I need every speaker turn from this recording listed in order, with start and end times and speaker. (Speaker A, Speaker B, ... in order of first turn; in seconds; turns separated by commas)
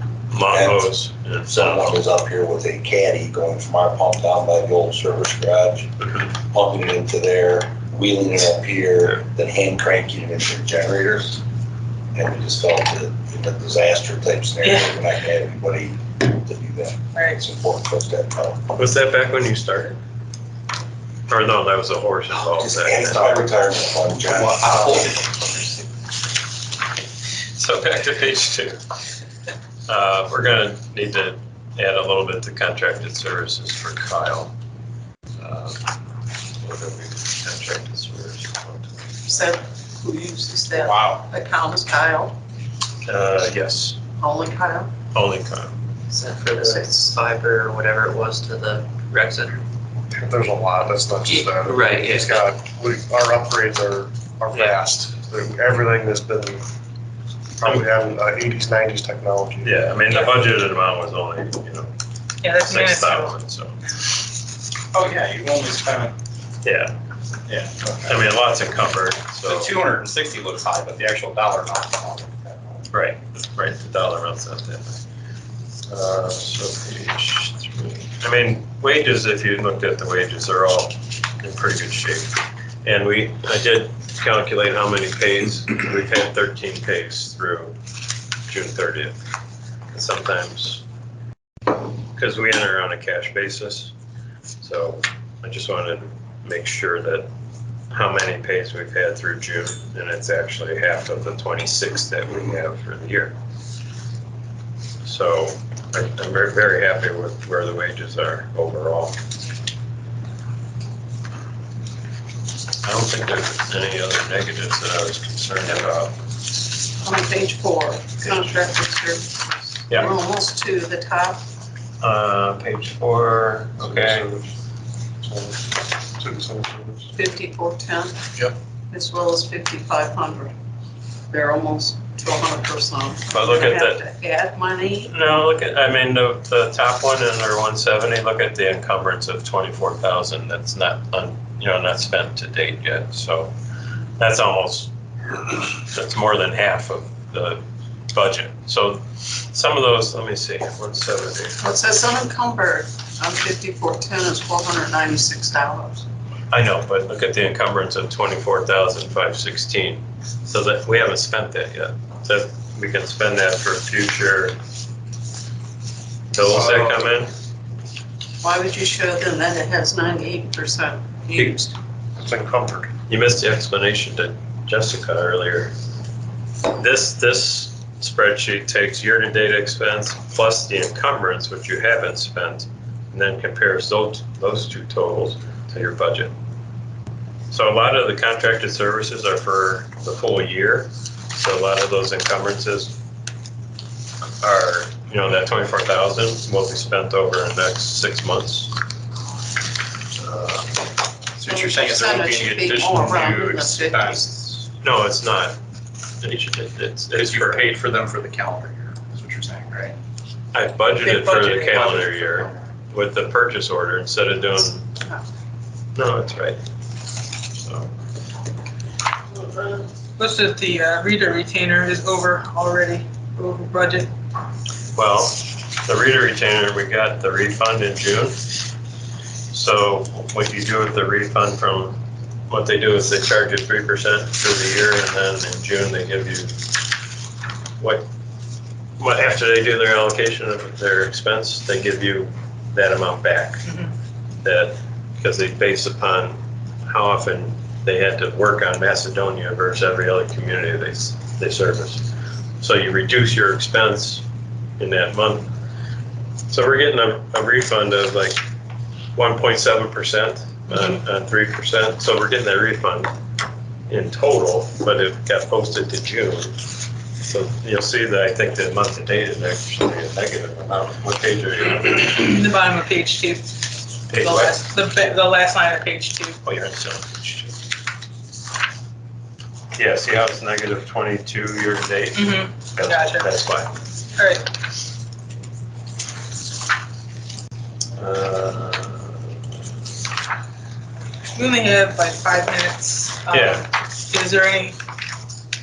Speaker A: 0.3-2.0, Speaker B: 0.5-0.9, Speaker B: 1.5-11.4, Speaker B: 12.1-18.7, Speaker C: 14.6-14.9, Speaker A: 18.7-20.0, Speaker A: 21.3-23.4, Speaker B: 22.4-25.0, Speaker D: 24.2-25.9, Speaker A: 27.6-28.8, Speaker A: 29.9-34.5, Speaker A: 35.4-35.8, Speaker A: 36.6-39.4, Speaker E: 39.3-42.4, Speaker D: 40.7-41.3, Speaker A: 43.0-44.0, Speaker E: 44.2-44.9, Speaker A: 45.1-45.8, Speaker F: 46.1-49.6, Speaker E: 46.6-47.0, Speaker G: 50.1-56.6, Speaker F: 51.3-52.5, Speaker A: 54.5-54.8, Speaker G: 57.6-59.7, Speaker A: 59.6-61.9, Speaker C: 62.4-63.3, Speaker A: 62.5-63.9, Speaker D: 64.9-66.2, Speaker A: 66.6-67.0, Speaker D: 67.5-68.2, Speaker A: 68.1-69.8, Speaker D: 69.5-72.9, Speaker A: 72.9-75.0, Speaker A: 75.9-87.8, Speaker A: 88.5-89.2, Speaker A: 89.9-90.8, Speaker A: 91.7-93.9, Speaker A: 94.6-97.3, Speaker A: 97.9-103.4, Speaker A: 105.0-109.2, Speaker A: 112.8-116.2, Speaker E: 116.9-121.4, Speaker A: 122.0-124.3, Speaker G: 123.9-124.4, Speaker G: 125.2-127.1, Speaker E: 127.1-128.2, Speaker E: 128.9-130.5, Speaker E: 131.3-135.1, Speaker A: 133.3-134.0, Speaker A: 135.1-143.5, Speaker A: 144.2-151.6, Speaker E: 151.6-156.1, Speaker A: 156.5-164.6, Speaker A: 166.3-167.3, Speaker E: 168.4-171.8, Speaker G: 172.2-172.9, Speaker A: 173.1-175.7, Speaker A: 176.6-186.3, Speaker A: 187.5-192.9, Speaker A: 194.4-198.8, Speaker A: 200.2-200.7, Speaker D: 201.4-204.3, Speaker E: 201.5-204.5, Speaker A: 204.8-205.6, Speaker A: 206.2-207.7, Speaker D: 207.1-210.0, Speaker A: 210.5-214.9, Speaker C: 211.0-212.0, Speaker D: 211.7-212.6, Speaker A: 215.9-216.6, Speaker A: 217.5-217.9, Speaker C: 220.2-224.1, Speaker A: 224.9-228.4, Speaker A: 229.5-236.6, Speaker A: 237.8-238.1, Speaker A: 239.0-243.8, Speaker A: 244.4-252.1, Speaker A: 252.6-254.2, Speaker A: 254.8-255.5, Speaker A: 256.5-258.4, Speaker A: 259.2-263.1, Speaker A: 263.9-266.6, Speaker A: 267.2-272.1, Speaker C: 272.1-273.6, Speaker C: 274.1-276.4, Speaker A: 274.1-274.6, Speaker A: 276.4-277.6, Speaker A: 279.8-283.7, Speaker C: 282.1-283.3, Speaker C: 284.2-284.5, Speaker A: 288.0-289.2, Speaker C: 291.4-294.8, Speaker A: 293.3-293.7